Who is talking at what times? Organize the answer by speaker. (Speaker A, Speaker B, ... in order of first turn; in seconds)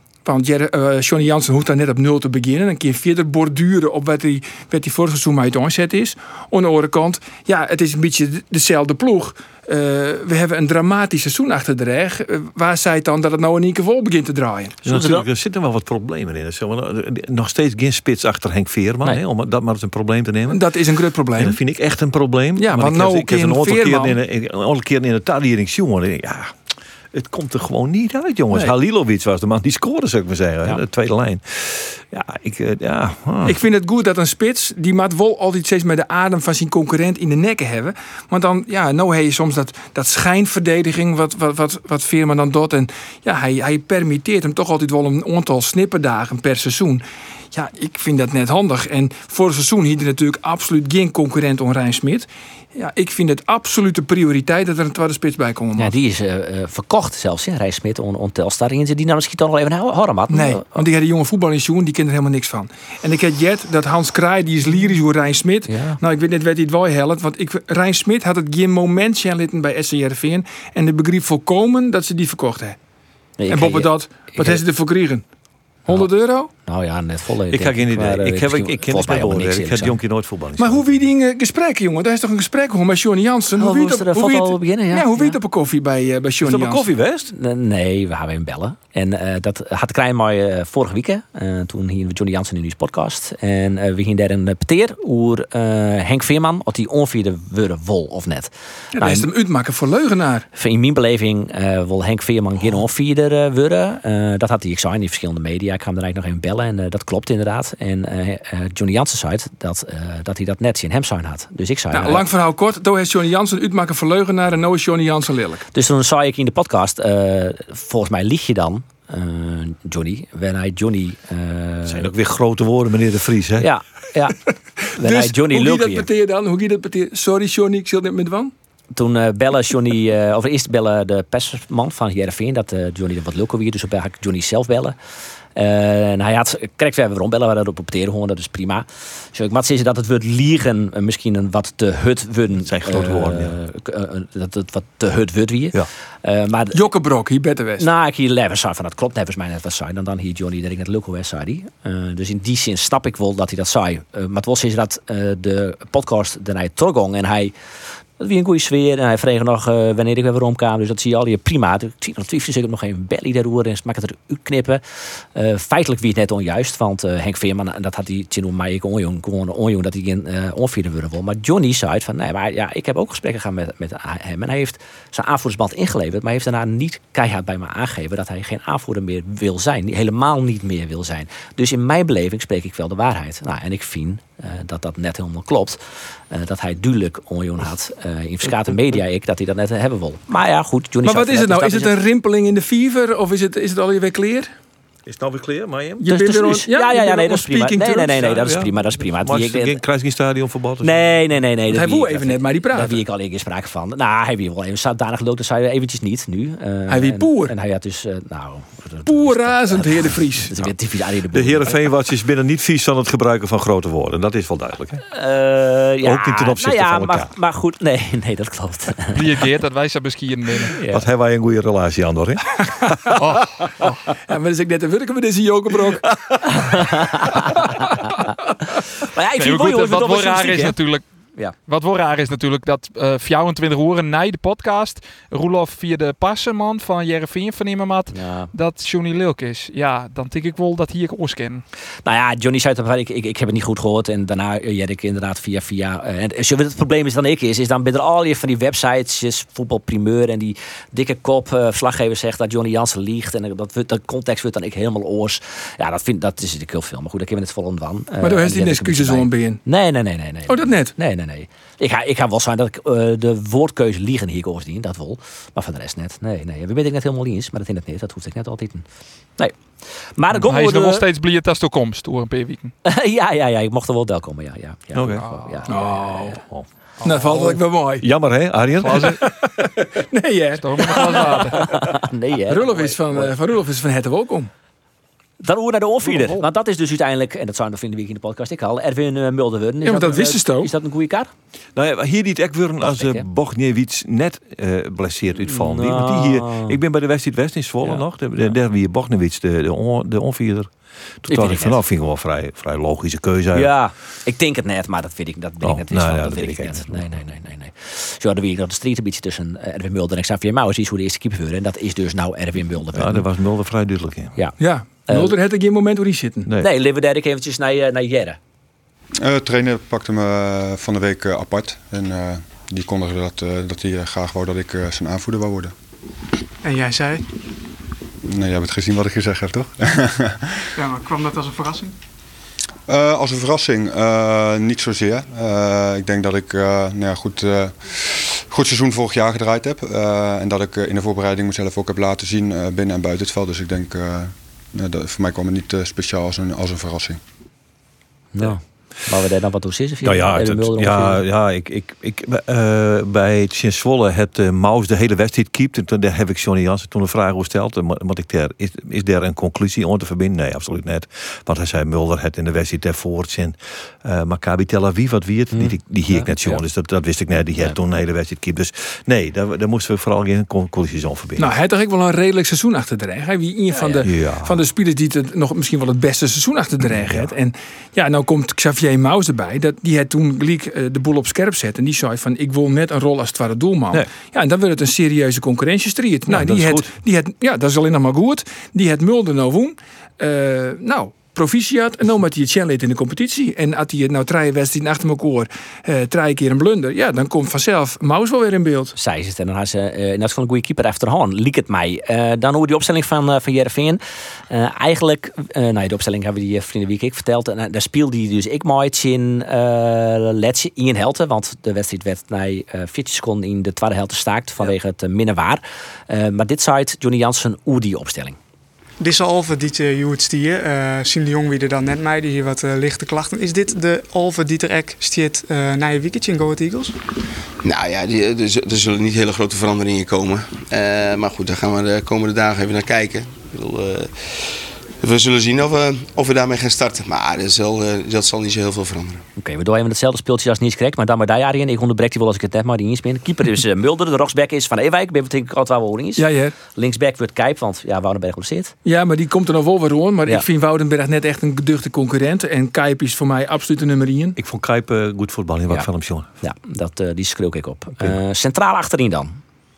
Speaker A: 0.2-14.8, 20.5-21.6, 22.6-24.2, 33.4-55.9, 60.3-72.8, 73.5-75.2, 75.9-76.5, 80.6-86.9, 98.9-100.5, 111.9-115.6, 124.8-128.5, 146.7-147.9, 191.0-194.5, 196.0-198.3, 201.7-203.0, 206.9-207.5, 209.0-210.6, 224.3-226.1, 258.2-259.6, 260.5-260.9, 275.7-276.4, 277.0-278.1, 279.3-281.6, 282.5-284.5, 289.8-290.7, 314.6-316.5, 371.4-398.9, 446.2-446.6, 448.8-454.4
Speaker B: 14.8-15.2, 55.8-60.8, 65.7-66.0, 73.4-74.6, 76.6-80.0, 83.5-85.4, 87.3-99.3, 100.5-112.3, 115.7-122.1, 123.6-124.4, 125.0-126.1, 128.9-134.9, 135.6-146.8, 147.8-157.5, 158.2-192.0, 196.1-199.8, 200.8-211.9, 215.1-219.2, 220.8-221.1, 226.4-227.7, 229.1-230.8, 238.1-238.5, 242.0-268.8, 270.1-271.0, 272.8-276.4, 281.8-283.3, 285.4-291.3, 292.8-293.2, 295.4-296.8, 301.3-301.8, 303.5-313.2, 314.4-315.4, 316.6-318.4, 348.3-351.2, 365.5-366.6, 398.9-418.4, 439.4-448.7, 456.4-459.4
Speaker C: 14.8-20.6, 21.3-26.6, 27.1-33.6, 77.5-81.0, 86.4-87.3, 121.8-123.7, 142.5-143.6, 195.0-196.1, 198.2-201.2, 211.3-215.0, 216.0-217.3, 220.9-222.9, 274.9-275.3, 276.3-276.6, 278.0-279.2, 291.8-300.7, 301.2-303.7, 305.6-307.2, 312.9-314.3, 350.0-371.5, 373.9-374.6, 376.9-377.3, 386.3-386.9, 454.4-456.3
Speaker D: 219.1-220.8, 229.4-231.0, 231.7-241.6, 270.5-272.7, 278.8-279.2, 280.6-281.7, 286.1-286.4
Speaker E: 319.2-325.7, 328.2-330.4, 332.9-347.2
Speaker F: 326.6-327.2, 330.8-331.9, 419.0-426.9
Speaker G: 427.6-434.1, 435.0-439.2